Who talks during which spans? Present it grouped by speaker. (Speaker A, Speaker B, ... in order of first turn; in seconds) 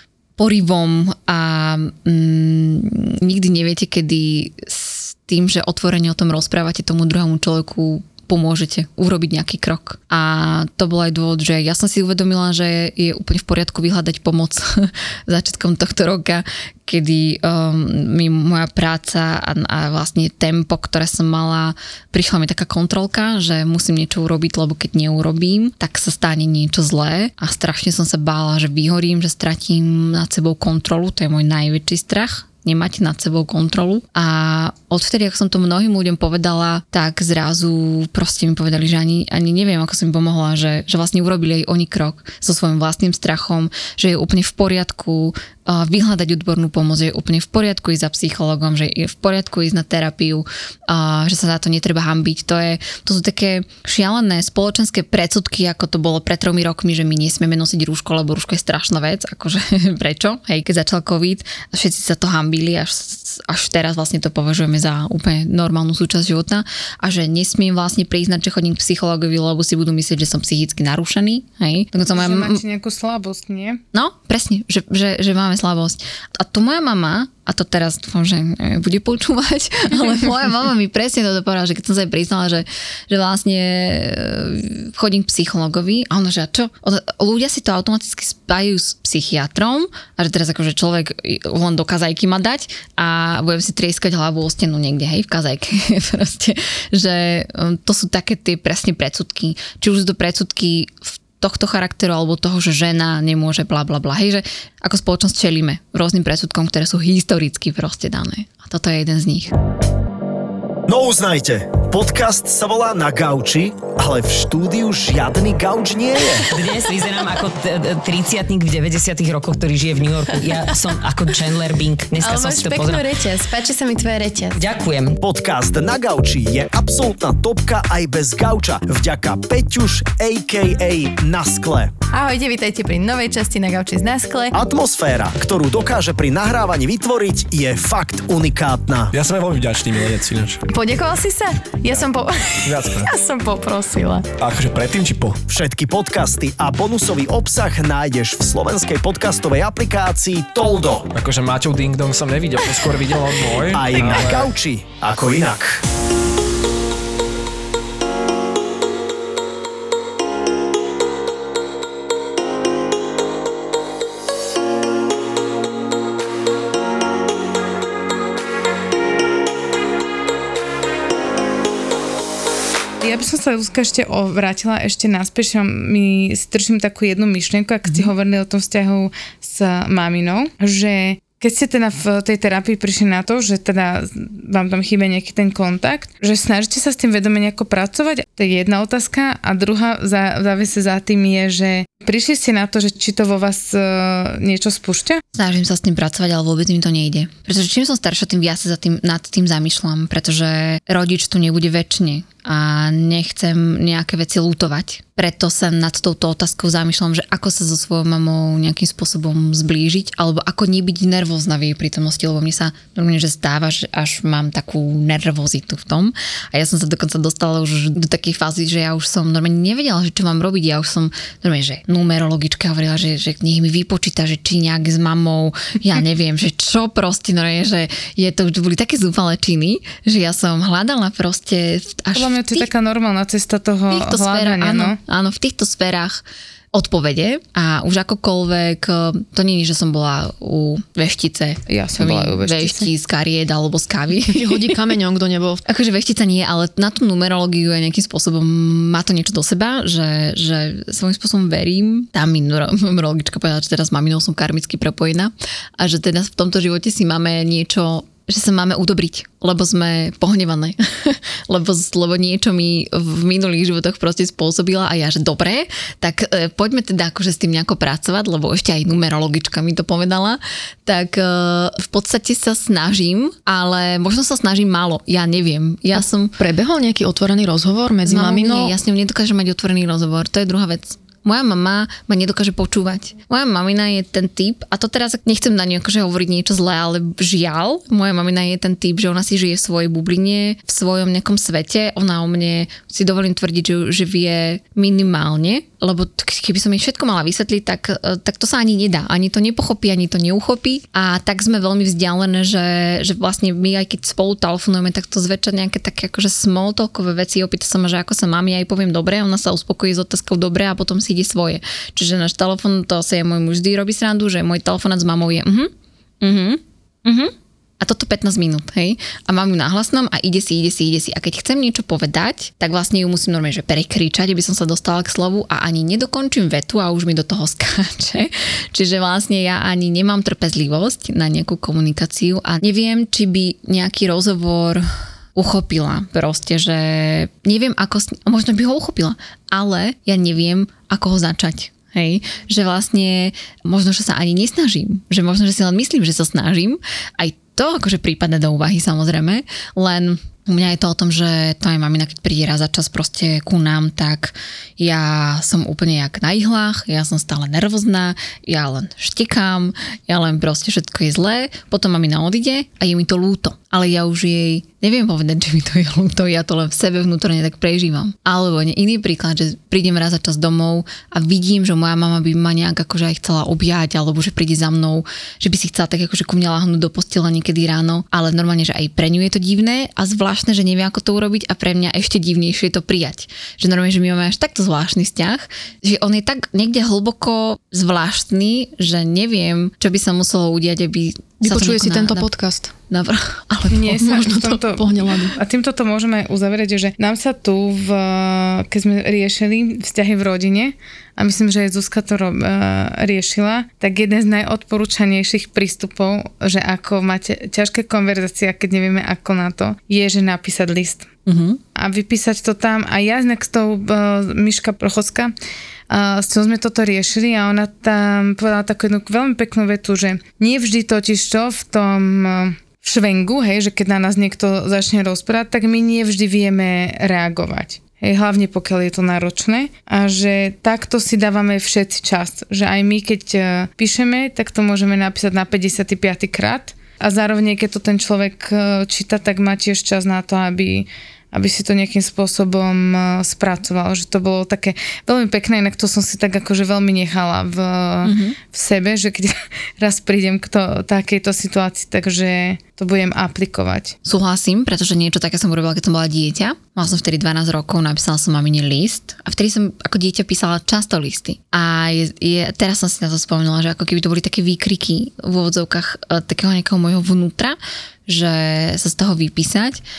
Speaker A: 0.4-72.6, 73.9-109.5, 195.3-232.7, 233.9-244.8, 245.7-276.4, 278.1-315.7, 316.2-392.3, 392.9-394.6, 411.3-411.6, 448.0-448.4, 454.1-469.8
Speaker B: 72.1-73.8, 173.0-195.2, 232.1-235.0, 241.7-242.9, 393.7-411.1, 411.8-415.3, 415.9-454.0
Speaker C: 110.9-116.4, 125.2-132.0, 134.5-139.1, 145.5-151.1, 153.7-155.8
Speaker D: 116.5-123.0, 124.6-125.2
Speaker E: 122.2-124.7, 132.1-134.5, 140.7-144.3
Speaker F: 139.1-140.6, 142.7-143.1, 144.4-145.4, 151.1-154.5
Speaker G: 244.3-245.6, 276.0-278.8, 391.4-392.7, 394.2-395.4